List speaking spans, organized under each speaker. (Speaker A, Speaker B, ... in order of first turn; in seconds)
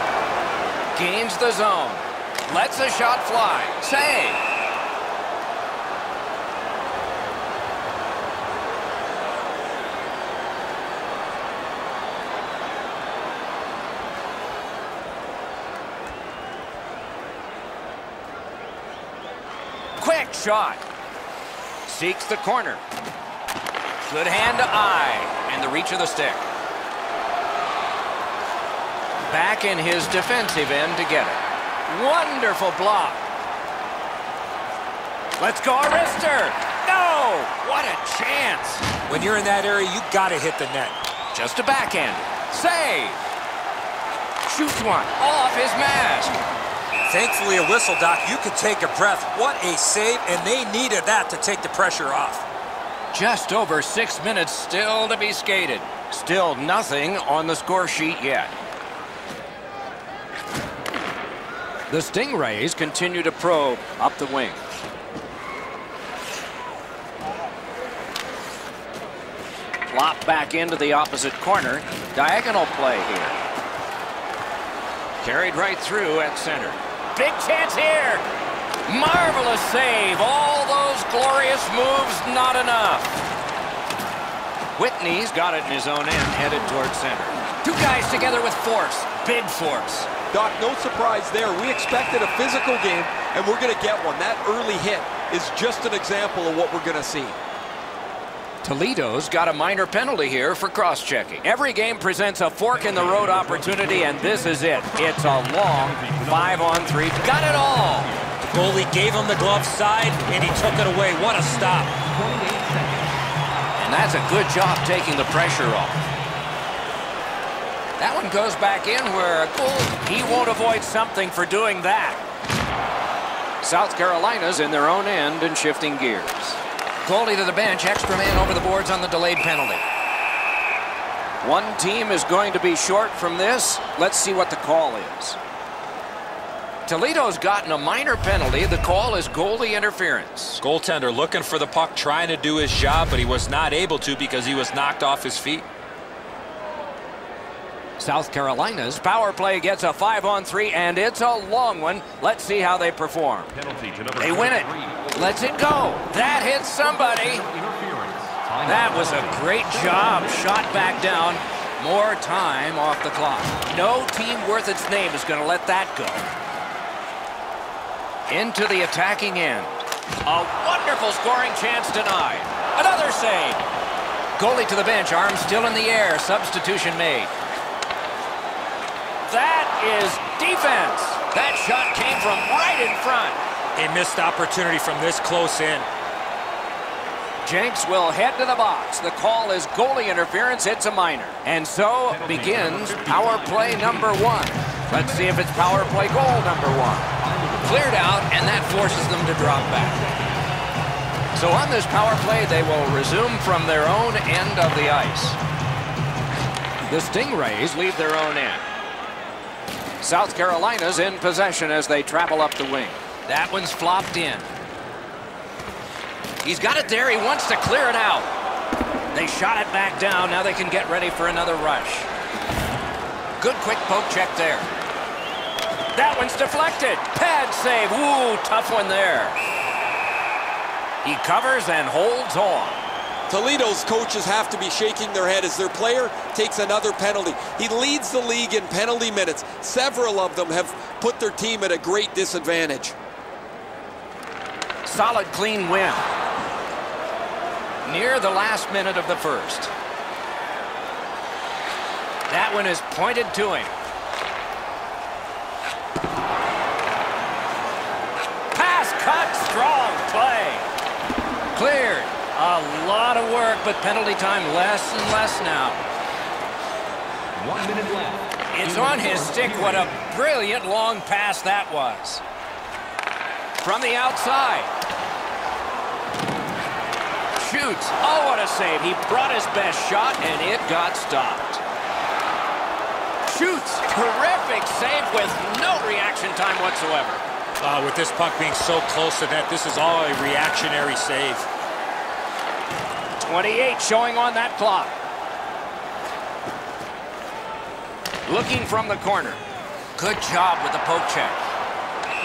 Speaker A: 0.9-4.4, 20.0-20.8, 21.9-22.8, 24.0-26.4, 29.3-33.2, 35.4-38.8, 41.3-43.2, 44.5-46.4, 53.1-58.5, 61.9-64.6, 69.9-73.4, 75.2-78.2, 78.8-83.2, 84.8-90.1, 98.6-108.1, 113.8-116.0, 118.0-122.2, 123.6-129.8, 131.4-135.4, 136.8-140.6, 148.0-153.5, 154.2-157.4, 158.6-166.3, 168.3-173.6, 174.4-177.3, 179.2-183.4, 187.4-197.1, 197.6-200.0, 201.3-205.4, 206.9-208.6, 210.0-214.5, 216.4-218.3, 219.1-222.1, 223.4-224.7, 225.9-229.3, 231.0-232.8, 244.8-246.0, 247.8-249.7, 252.3-253.7, 258.5-260.7, 261.5-265.8, 268.5-272.2, 273.6-274.7, 277.4-281.6, 283.2-287.2, 293.2-294.9, 298.2-299.4, 300.0-301.4
Speaker B: 39.1-41.0, 47.0-52.4, 108.5-111.9, 140.6-145.7, 183.8-185.8, 287.6-291.5
Speaker C: 90.3-97.4, 233.3-242.9
Speaker D: 102.7-108.4, 111.9-113.2, 153.5-155.1, 156.5-160.5, 192.1-194.3, 194.9-196.1, 197.2-200.3, 267.4-269.9